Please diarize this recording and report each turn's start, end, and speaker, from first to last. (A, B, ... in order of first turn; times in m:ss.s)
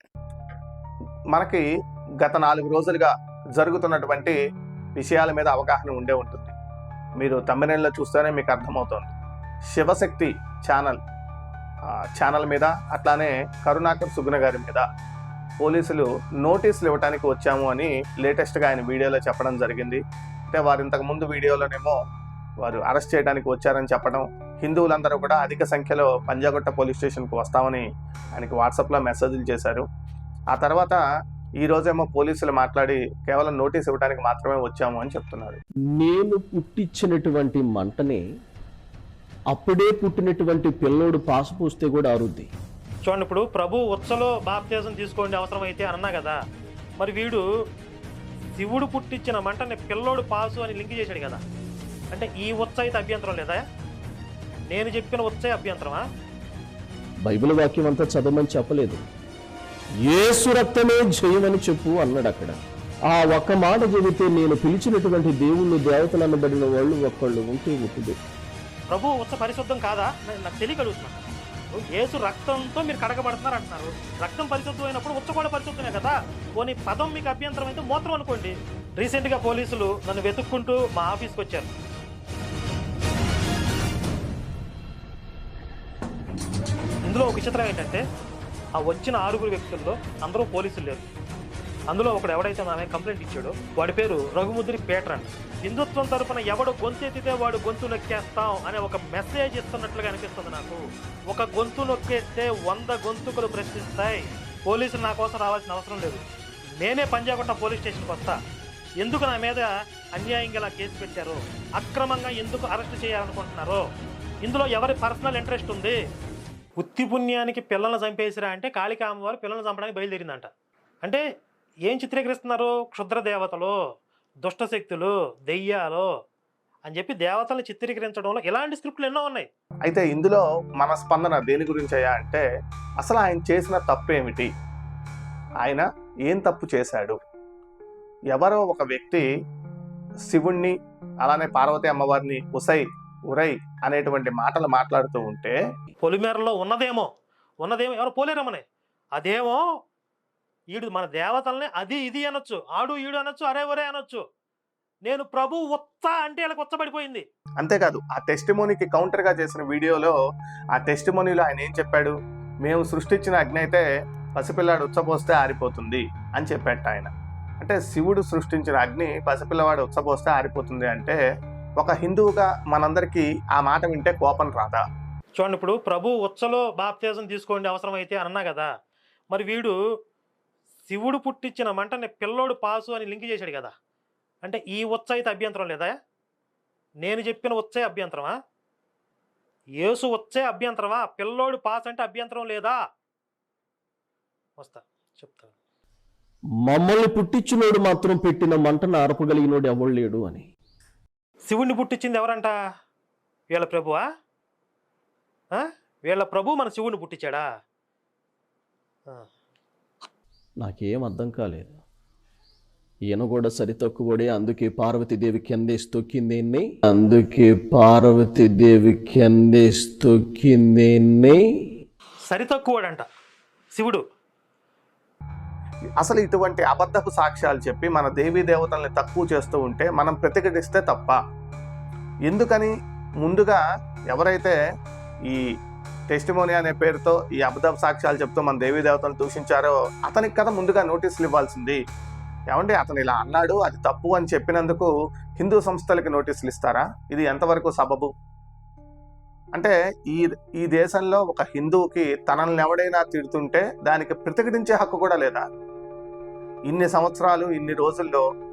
0:01.3-0:01.6 A
0:02.2-0:04.4 A
0:05.0-0:06.5 A
0:07.2-0:09.1 A
0:09.7-0:11.0 A
0:12.2-0:14.8 A
0:15.6-0:20.0 A
0:20.5-0:22.0 A
0:22.6-0:27.8 A
0:28.4-0:29.8 A
0:30.5-0:31.0 A
0:31.6-0:35.6 A
0:36.0-0:38.2 B
0:39.5-0:42.5 B
0:43.1-0:46.4 C
0:47.0-0:47.4 C
0:48.6-0:51.4 C
0:52.1-0:53.6 C
0:54.7-0:56.0 C
0:57.2-0:59.0 B
1:00.0-1:02.6 B
1:03.1-1:08.2 B
1:08.9-1:11.2 C
1:11.9-1:21.7 C
1:27.1-1:28.0 C
1:28.8-1:31.0 C
1:31.9-1:46.2 C
1:46.8-1:48.4 C
1:49.0-1:53.8 C
1:54.4-1:56.0 C
1:56.8-2:00.5 C
2:01.9-2:03.7 C
2:04.4-2:06.1 C
2:06.9-2:09.5 C
2:09.8-2:12.4 A
2:13.0-2:14.5 A
2:15.6-2:17.2 A
2:18.3-2:19.2 A
2:20.3-2:20.7 A
2:21.2-2:25.6 A
2:26.0-2:27.1 C
2:27.6-2:28.6 C
2:29.2-2:29.6 C
2:30.7-2:34.2 C
2:35.0-2:37.2 C
2:37.6-2:40.2 A
2:40.7-2:42.1 A
2:42.6-2:43.8 A
2:44.4-2:47.1 A
2:47.6-2:51.2 A
2:51.8-2:54.8 A
2:55.4-2:58.7 C
2:59.3-2:59.8 C
3:00.9-3:03.7 C
3:04.4-3:05.9 C
3:07.0-3:08.3 C
3:09.8-3:12.8 C
3:14.6-3:15.5 C
3:16.7-3:20.5 B
3:21.5-3:22.5 C
3:23.5-3:24.0 C
3:25.5-3:27.4 C
3:30.6-3:31.8 B
3:33.1-3:41.4 B
3:42.3-3:43.0 C
3:43.8-3:44.0 C
3:46.0-3:51.2 A
3:52.3-3:52.7 A
3:53.2-3:53.6 A
3:54.1-3:54.6 A
3:56.1-4:01.8 A
4:02.5-4:08.1 A
4:09.6-4:15.4 A
4:16.7-4:18.2 A